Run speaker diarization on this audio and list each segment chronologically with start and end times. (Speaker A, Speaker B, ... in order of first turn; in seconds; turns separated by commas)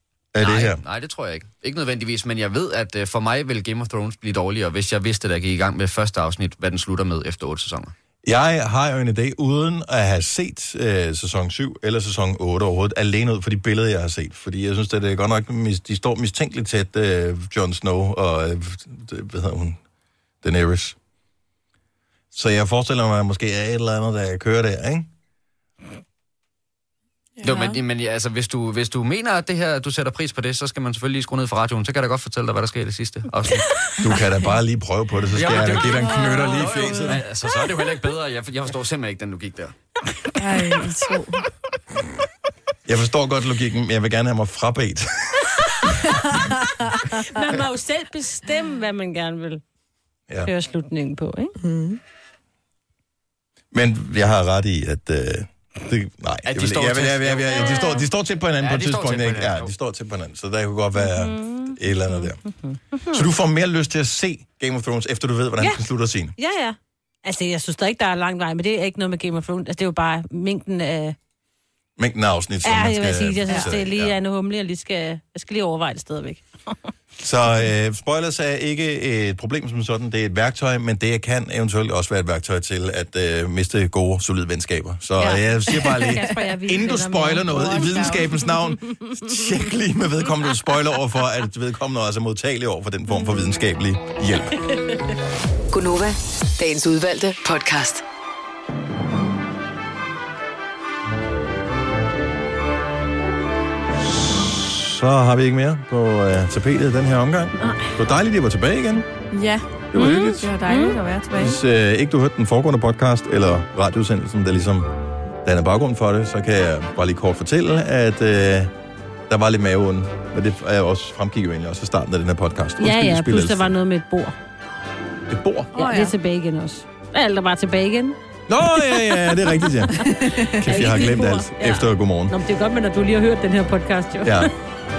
Speaker A: 0.3-0.8, Speaker B: 0.4-7.9, Speaker A: 8.2-19.8, Speaker A: 20.4-21.0, Speaker A: 22.3-25.1, Speaker C: 27.4-27.8, Speaker B: 27.4-33.7, Speaker A: 34.0-37.2, Speaker B: 35.3-39.8, Speaker C: 35.9-37.2, Speaker C: 40.4-41.4, Speaker A: 42.9-45.5, Speaker C: 46.5-46.9, Speaker D: 47.1-49.6, Speaker D: 50.4-51.6, Speaker C: 51.6-52.0, Speaker A: 53.7-62.4, Speaker B: 56.5-58.0, Speaker D: 57.6-58.1, Speaker B: 58.6-59.7, Speaker D: 61.0-63.3, Speaker A: 63.1-66.3, Speaker D: 66.4-71.2, Speaker A: 72.0-74.1, Speaker D: 72.6-76.8, Speaker A: 77.2-94.6, Speaker D: 85.2-88.1, Speaker C: 85.8-86.6, Speaker C: 87.5-88.3, Speaker E: 95.7-98.0, Speaker A: 104.4-109.0, Speaker D: 107.6-107.9, Speaker C: 109.3-111.6, Speaker A: 109.9-110.5, Speaker D: 110.0-111.0, Speaker A: 111.4-114.9, Speaker A: 115.4-118.7, Speaker A: 119.3-123.7, Speaker D: 122.8-124.4, Speaker A: 125.3-125.7, Speaker C: 125.7-126.2, Speaker D: 125.8-128.2, Speaker A: 128.5-132.3, Speaker D: 128.8-134.5, Speaker C: 130.1-130.5, Speaker A: 134.2-134.5